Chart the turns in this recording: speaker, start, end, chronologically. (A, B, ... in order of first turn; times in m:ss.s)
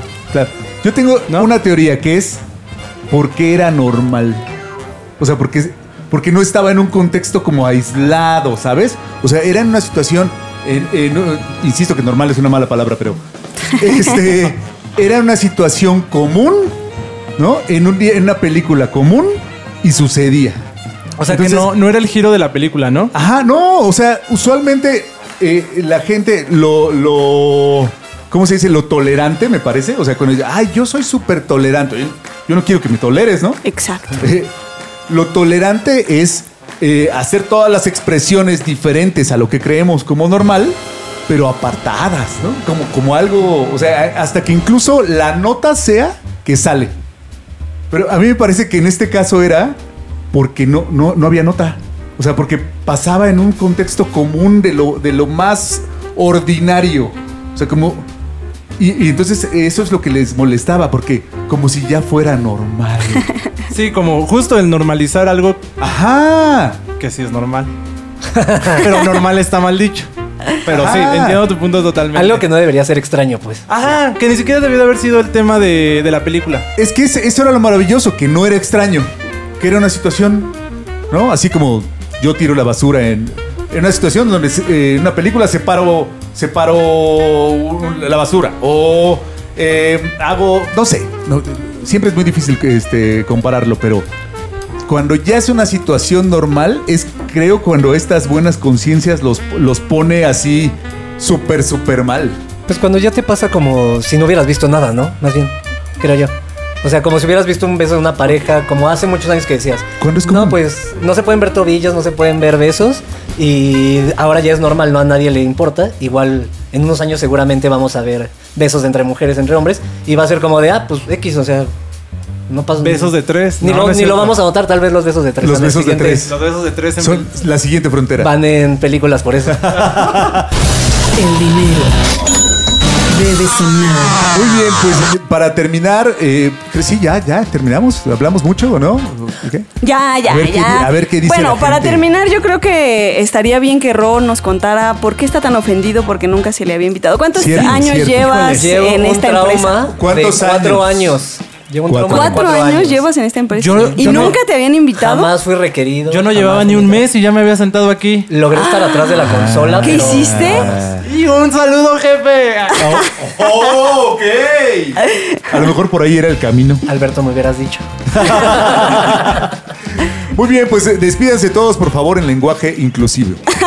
0:00.3-0:02.4 A
0:03.1-0:04.5 A
0:05.2-0:13.2 A
0:13.7-0:16.8 A
0:17.4-0:20.6 A
0:21.2-0:23.1 B
0:21.2-0:21.7 A
0:23.1-0:33.6 A
0:33.6-0:34.2 C
0:34.2-0:34.5 A
0:35.1-0:46.9 A
0:47.9-0:49.8 A
0:50.3-0:58.1 A
0:58.8-1:03.3 A
1:03.7-1:05.6 B
1:05.8-1:06.8 A
1:07.0-1:07.7 B
1:08.3-1:08.9 D
1:08.7-1:12.5 B
1:10.7-1:11.4 A
1:12.1-1:13.7 D
1:13.7-1:16.6 B
1:16.8-1:20.6 A
1:21.1-1:34.1 A
1:34.8-1:42.4 A
1:42.7-2:01.7 D
1:50.0-1:50.6 A
2:02.5-2:06.3 D
2:02.8-2:04.4 B
2:05.4-2:06.3 A
2:06.0-2:07.3 B
2:07.0-2:08.3 A
2:08.2-2:09.8 D
2:09.5-2:10.5 A
2:11.1-2:12.0 E
2:13.1-2:14.2 E
2:14.2-2:19.7 A
2:19.8-2:29.9 C
2:20.2-2:22.0 A
2:27.3-2:28.4 A
2:27.7-2:28.7 B
2:28.4-2:33.0 D
2:29.9-2:31.2 A
2:31.9-2:32.6 A
2:32.1-2:35.3 C
2:33.5-2:34.4 B
2:33.7-2:34.2 D
2:34.0-2:34.3 A
2:35.0-2:37.1 D
2:36.1-2:38.3 B
2:38.3-2:40.6 D
2:38.5-2:39.2 C
2:39.2-2:41.0 A
2:39.8-2:40.7 C
2:41.0-2:43.1 B
2:42.7-2:46.8 A
2:46.8-2:48.4 D
2:48.1-2:53.4 A